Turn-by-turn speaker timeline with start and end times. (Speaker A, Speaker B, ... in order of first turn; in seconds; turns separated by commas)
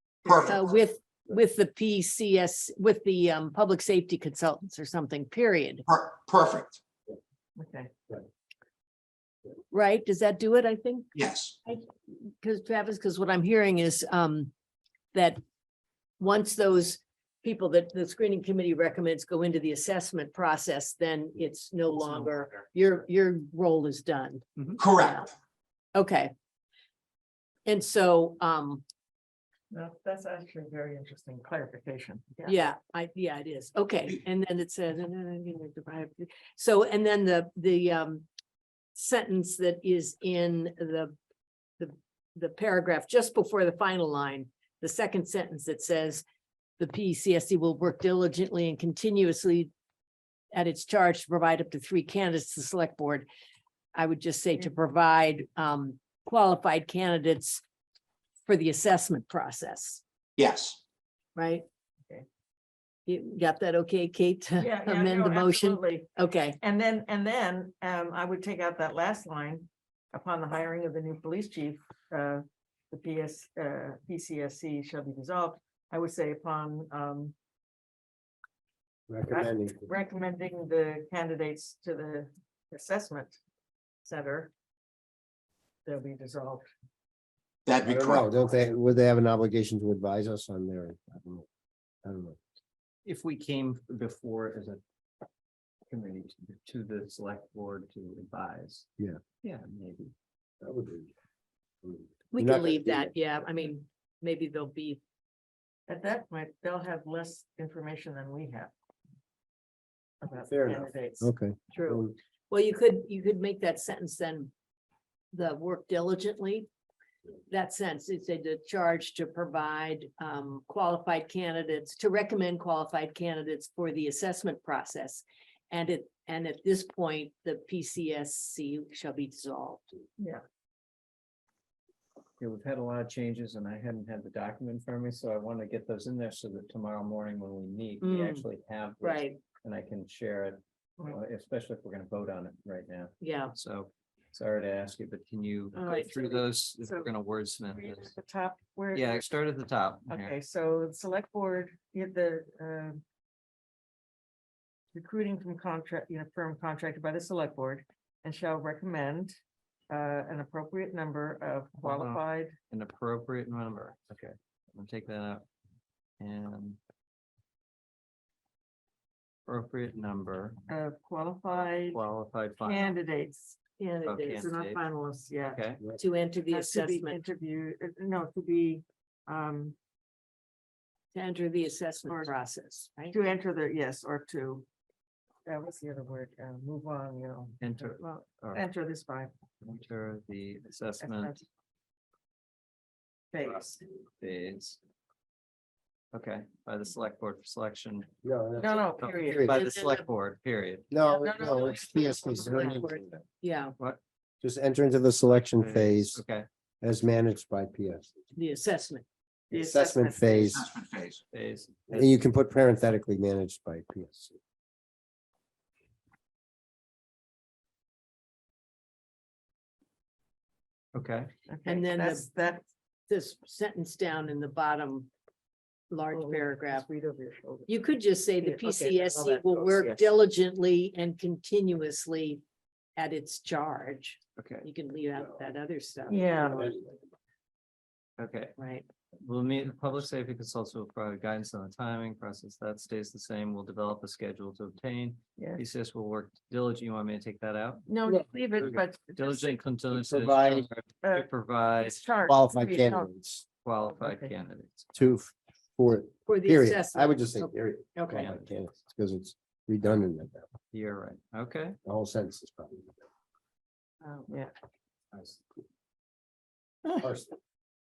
Speaker A: 0.3-0.8, Speaker B: 0.5-5.8, Speaker A: 5.9-6.8, Speaker C: 7.6-7.9, Speaker B: 9.7-11.1, Speaker A: 11.2-11.6, Speaker B: 11.7-14.5, Speaker B: 15.1-15.4, Speaker B: 16.2-25.3, Speaker A: 24.8-25.3, Speaker B: 25.9-26.3, Speaker B: 27.7-28.8, Speaker C: 29.7-32.6, Speaker B: 32.5-38.3, Speaker B: 39.0-41.1, Speaker B: 41.8-46.2, Speaker B: 46.8-49.7, Speaker B: 50.5-53.3, Speaker B: 54.0-57.6, Speaker B: 58.5-60.0, Speaker A: 60.4-60.8, Speaker B: 61.4-61.6, Speaker B: 63.1-66.6, Speaker C: 64.6-77.3, Speaker D: 79.1-79.9, Speaker C: 79.3-83.4, Speaker C: 84.0-84.5, Speaker C: 85.8-86.7, Speaker A: 87.7-88.3, Speaker D: 87.8-91.5, Speaker D: 92.0-92.4, Speaker E: 93.0-94.8, Speaker E: 95.9-98.9, Speaker E: 99.4-100.1, Speaker D: 100.6-101.1, Speaker D: 101.8-103.1, Speaker B: 102.3-105.0, Speaker C: 105.9-108.7, Speaker C: 110.2-111.3, Speaker D: 110.5-112.2, Speaker B: 111.7-114.5, Speaker B: 115.3-116.7, Speaker B: 117.5-129.9, Speaker E: 132.4-148.1, Speaker B: 138.0-138.5, Speaker B: 139.0-139.4, Speaker B: 143.2-143.5, Speaker B: 145.8-146.4, Speaker C: 147.8-149.3, Speaker E: 148.9-150.4, Speaker C: 150.1-153.0, Speaker C: 154.9-159.4, Speaker C: 159.9-162.5, Speaker E: 161.8-165.4, Speaker E: 166.2-166.8, Speaker E: 169.5-170.6, Speaker C: 170.7-172.1, Speaker E: 171.9-172.9, Speaker C: 172.6-173.7, Speaker B: 173.8-174.5, Speaker E: 174.1-174.8, Speaker C: 174.2-175.6, Speaker E: 175.4-175.8, Speaker B: 176.0-177.2, Speaker C: 176.5-179.8, Speaker B: 181.1-183.2, Speaker C: 182.1-182.4, Speaker C: 183.1-184.7, Speaker C: 185.5-188.0, Speaker E: 187.6-188.6, Speaker C: 188.5-189.3, Speaker E: 189.6-191.4, Speaker C: 191.0-191.4, Speaker C: 193.3-193.8, Speaker E: 194.2-194.8, Speaker E: 196.1-198.1, Speaker D: 198.2-199.7, Speaker C: 198.6-199.5, Speaker E: 199.0-200.9, Speaker B: 199.5-200.1, Speaker D: 200.9-203.2, Speaker C: 201.1-202.7, Speaker B: 202.3-203.8, Speaker D: 204.4-206.2, Speaker E: 205.4-206.5, Speaker D: 206.8-208.1, Speaker B: 208.3-209.1, Speaker C: 209.5-210.5, Speaker D: 209.5-210.6, Speaker A: 210.5-211.2, Speaker E: 211.3-212.2, Speaker D: 211.9-214.4, Speaker E: 220.9-221.3, Speaker C: 221.5-222.6, Speaker B: 221.7-222.3, Speaker B: 223.1-225.1, Speaker B: 225.9-226.9, Speaker C: 226.1-227.7, Speaker B: 227.7-232.4, Speaker C: 228.4-230.1, Speaker B: 233.0-236.8, Speaker E: 234.4-234.7, Speaker C: 236.1-236.7, Speaker D: 236.6-236.9, Speaker E: 238.2-238.6, Speaker B: 238.6-238.9, Speaker E: 239.2-247.8, Speaker C: 245.4-245.6, Speaker C: 247.9-249.6, Speaker E: 248.6-252.1, Speaker D: 249.9-250.7, Speaker C: 251.0-253.1, Speaker D: 252.3-253.4, Speaker E: 253.6-254.9, Speaker C: 253.9-254.3, Speaker D: 254.9-260.5, Speaker B: 256.3-258.3, Speaker E: 258.1-258.5, Speaker E: 260.7-261.8, Speaker D: 261.9-262.9, Speaker C: 264.1-264.5, Speaker D: 267.0-267.3